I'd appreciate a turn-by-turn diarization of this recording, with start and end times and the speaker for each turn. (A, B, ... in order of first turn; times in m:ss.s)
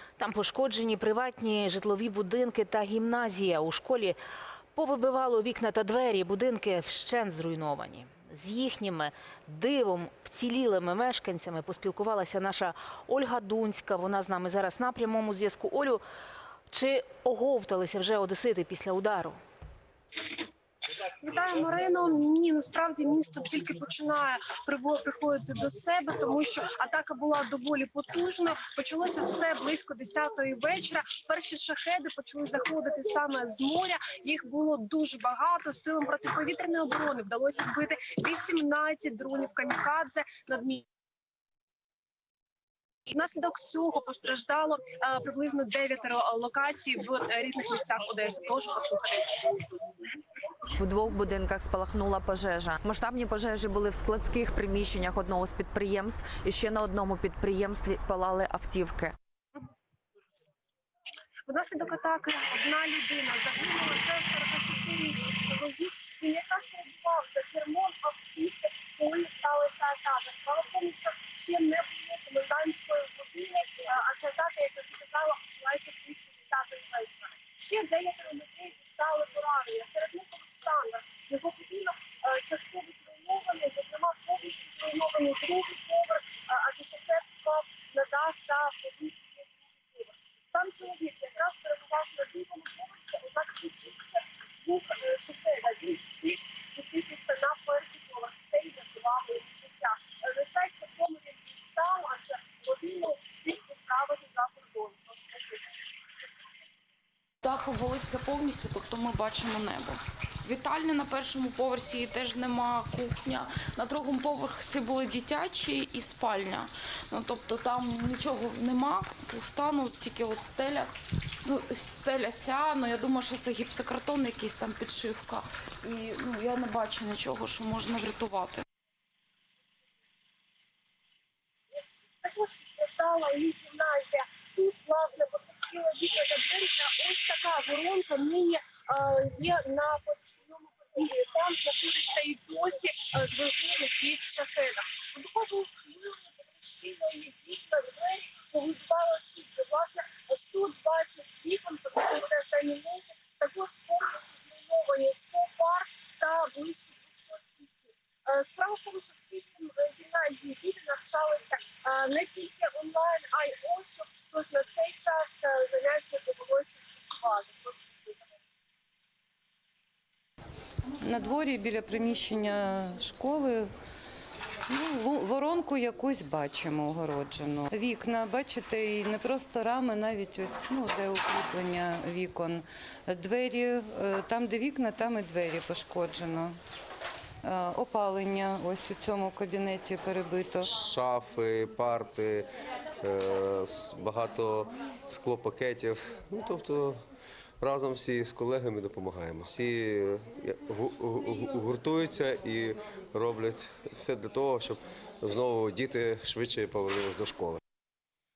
0:00.2-0:04.2 A
0:04.8-0:16.0 A
0:16.7-0:19.4 A
0:21.2-0:40.8 B
0:43.1-0:50.0 B
0:50.8-0:59.2 C
1:01.5-1:45.7 B
1:47.4-2:00.9 D
2:01.4-2:08.6 D
2:12.2-2:48.4 B
2:51.0-2:53.7 E
2:54.7-3:06.5 E
3:07.4-3:10.7 E
3:10.7-3:12.5 F
3:13.0-3:17.0 F
3:17.6-3:27.6 F